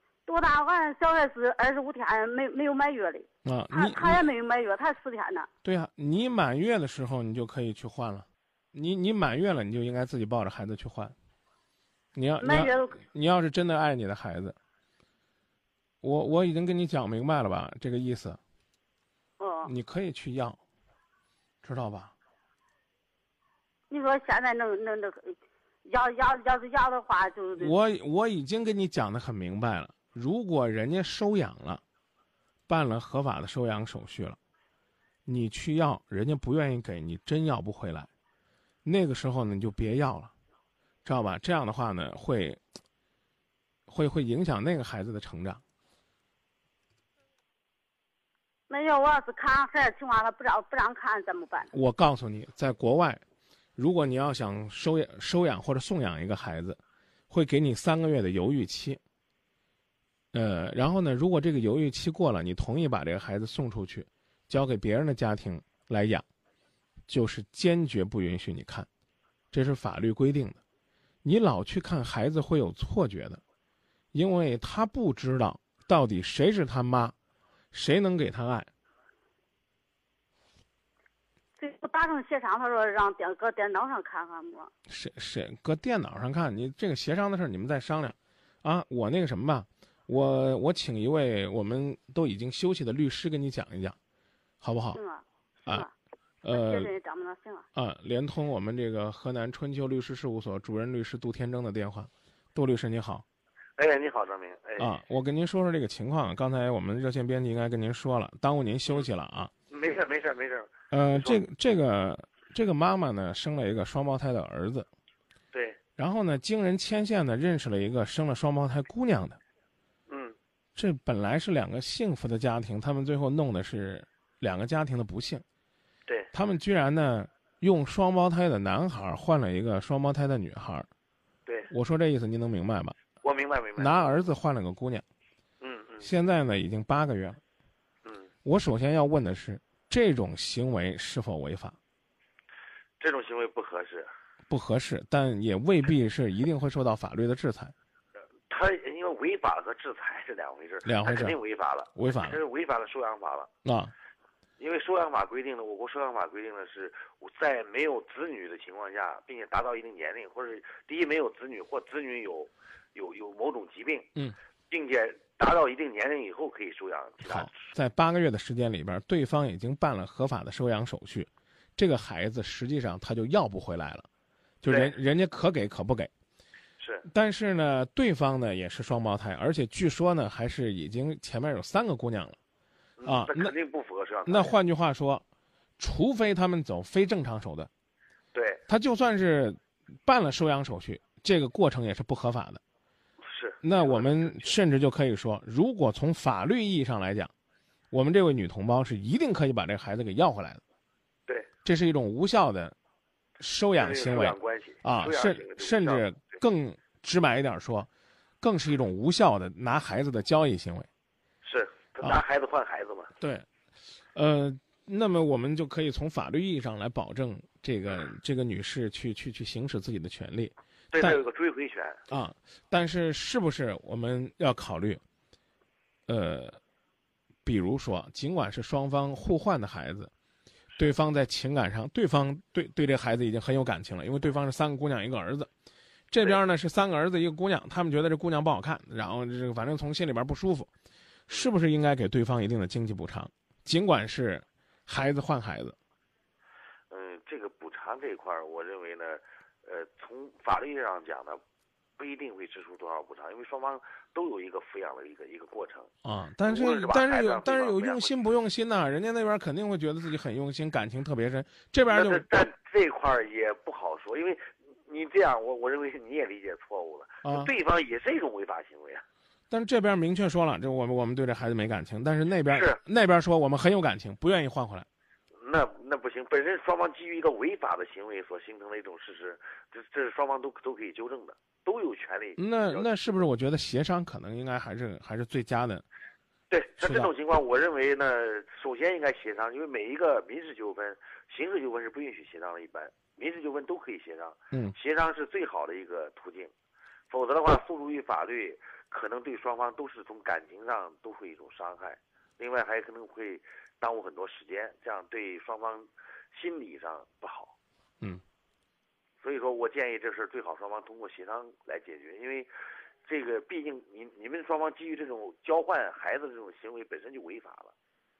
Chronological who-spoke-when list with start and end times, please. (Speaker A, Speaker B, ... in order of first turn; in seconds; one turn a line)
Speaker A: 0.2-5.5
Speaker B: 3.4-4.3
Speaker B: 5.6-11.1
Speaker B: 12.1-14.6
Speaker A: 12.4-13.0
Speaker B: 16.0-18.4
Speaker A: 19.4-19.7
Speaker B: 19.6-20.6
Speaker B: 21.6-22.1
Speaker A: 23.9-27.7
Speaker B: 27.6-31.8
Speaker B: 32.7-34.4
Speaker B: 35.2-38.1
Speaker B: 38.8-40.3
Speaker B: 41.0-42.6
Speaker B: 43.9-45.6
Speaker A: 48.7-51.7
Speaker B: 51.7-53.2
Speaker B: 53.8-56.8
Speaker B: 57.3-59.0
Speaker B: 60.3-66.2
Speaker B: 67.1-68.9
Speaker B: 69.5-70.6
Speaker B: 71.2-73.4
Speaker B: 74.1-77.1
Speaker B: 77.7-78.7
Speaker A: 81.6-84.7
Speaker B: 84.9-94.0
Speaker B: 94.6-95.0
Speaker A: 94.9-95.9
Speaker B: 96.4-96.9
Speaker A: 96.5-97.7
Speaker B: 97.7-103.2
Speaker C: 103.8-105.0
Speaker B: 104.8-109.5
Speaker C: 109.7-111.5
Speaker B: 110.9-114.9
Speaker C: 115.5-115.8
Speaker B: 116.0-119.4
Speaker C: 120.1-120.3
Speaker B: 120.8-125.4
Speaker B: 126.3-130.9
Speaker C: 131.5-131.7
Speaker B: 131.7-132.9
Speaker C: 133.2-134.3
Speaker B: 133.8-135.0
Speaker C: 135.6-136.1
Speaker B: 136.0-137.4
Speaker C: 138.0-138.3
Speaker B: 138.4-141.8
Speaker C: 143.0-144.1
Speaker B: 144.5-147.7
Speaker C: 148.5-153.5
Speaker B: 150.8-151.4
Speaker B: 152.0-152.4
Speaker B: 153.6-153.9
Speaker C: 154.6-164.1
Speaker C: 164.7-167.7
Speaker B: 167.2-174.1
Speaker B: 174.6-176.1
Speaker C: 174.7-175.0
Speaker C: 176.8-177.1
Speaker B: 177.1-182.4
Speaker C: 183.0-184.6
Speaker B: 183.0-183.5
Speaker B: 184.2-185.2
Speaker B: 185.8-187.7
Speaker C: 188.3-188.6
Speaker B: 188.7-192.6
Speaker C: 193.2-194.6
Speaker B: 193.6-197.3
Speaker B: 197.9-200.6
Speaker B: 201.6-202.7
Speaker B: 203.4-207.9
Speaker C: 203.7-206.4
Speaker B: 208.4-210.9
Speaker C: 211.4-213.1
Speaker B: 213.2-213.4
Speaker B: 214.1-221.2
Speaker C: 220.9-222.0
Speaker B: 222.1-225.0
Speaker B: 226.1-226.6
Speaker B: 227.4-230.1
Speaker B: 230.8-235.5
Speaker B: 236.1-240.7
Speaker C: 241.3-241.5
Speaker B: 241.4-245.8
Speaker C: 246.9-251.4
Speaker C: 252.0-255.9
Speaker B: 256.0-262.3
Speaker C: 256.4-258.3
Speaker C: 261.9-269.0
Speaker B: 267.2-267.5
Speaker B: 269.5-274.9
Speaker C: 272.5-272.8
Speaker C: 275.4-283.3
Speaker B: 282.4-285.8
Speaker C: 286.5-296.5
Speaker B: 286.8-287.1
Speaker C: 297.1-307.5
Speaker C: 309.2-312.5
Speaker C: 313.0-317.7